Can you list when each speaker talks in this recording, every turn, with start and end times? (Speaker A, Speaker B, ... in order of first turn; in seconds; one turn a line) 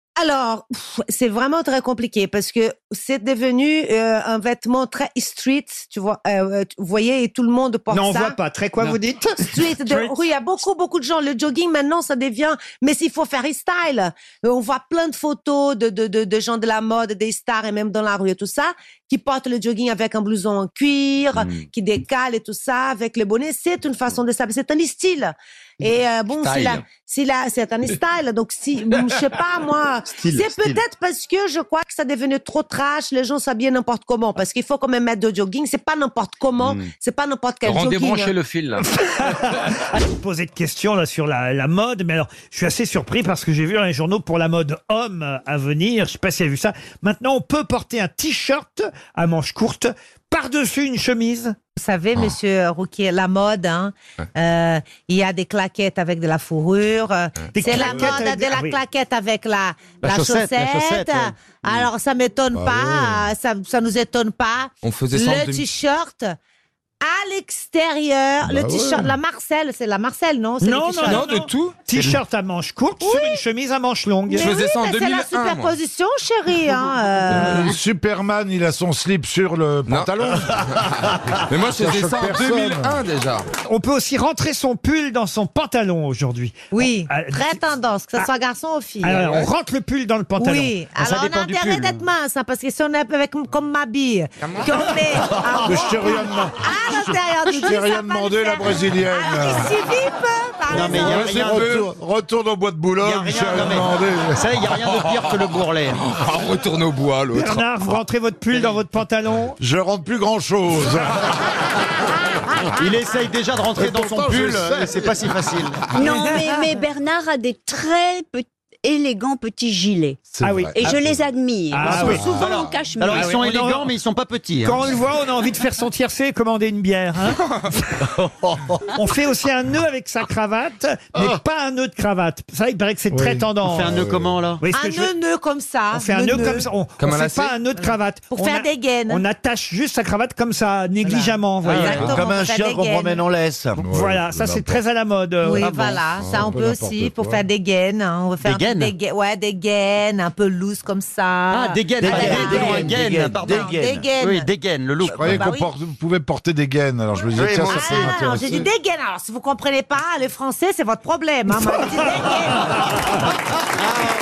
Speaker A: 0.2-8.3
Speaker B: 7.9-10.2
Speaker A: 9.4-38.3
Speaker C: 26.4-26.9
Speaker C: 30.3-30.8
Speaker C: 36.6-36.9
Speaker C: 37.6-38.8
Speaker B: 38.9-51.6
Speaker A: 51.8-66.3
Speaker B: 57.5-58.8
Speaker D: 57.7-58.2
Speaker E: 60.0-61.9
Speaker D: 62.5-63.3
Speaker F: 64.8-65.7
Speaker A: 67.0-71.3
Speaker D: 68.4-69.1
Speaker B: 70.6-74.5
Speaker F: 71.1-71.8
Speaker A: 73.0-73.4
Speaker F: 74.3-75.8
Speaker A: 74.3-77.8
Speaker D: 77.3-80.7
Speaker F: 79.9-80.2
Speaker D: 81.5-83.0
Speaker F: 81.5-83.5
Speaker B: 83.7-87.6
Speaker A: 86.7-89.3
Speaker B: 89.0-90.8
Speaker A: 90.4-101.4
Speaker E: 91.0-92.0
Speaker D: 95.6-99.8
Speaker E: 100.7-101.9
Speaker D: 100.7-104.5
Speaker E: 103.0-106.0
Speaker F: 106.0-107.6
Speaker B: 107.3-109.6
Speaker D: 109.6-111.3
Speaker E: 112.7-115.9
Speaker D: 113.7-115.2
Speaker G: 115.9-120.2
Speaker D: 120.3-121.1
Speaker B: 120.4-120.8
Speaker G: 120.7-123.2
Speaker B: 121.7-122.3
Speaker E: 121.8-124.9
Speaker B: 123.1-123.9
Speaker B: 124.6-127.4
Speaker B: 128.9-134.0
Speaker D: 133.1-134.4
Speaker E: 133.7-134.6
Speaker B: 134.6-135.1
Speaker A: 134.7-136.7
Speaker B: 135.9-142.2
Speaker C: 137.1-137.5
Speaker A: 138.3-139.2
Speaker A: 141.0-143.3
Speaker E: 141.7-143.8
Speaker D: 143.8-144.8
Speaker B: 143.9-145.7
Speaker A: 145.4-154.5
Speaker E: 145.6-146.0
Speaker F: 146.2-146.5
Speaker D: 146.3-147.5
Speaker E: 148.4-148.9
Speaker E: 151.5-155.3
Speaker A: 155.0-155.7
Speaker D: 155.1-158.7
Speaker E: 157.3-158.2
Speaker A: 157.7-163.1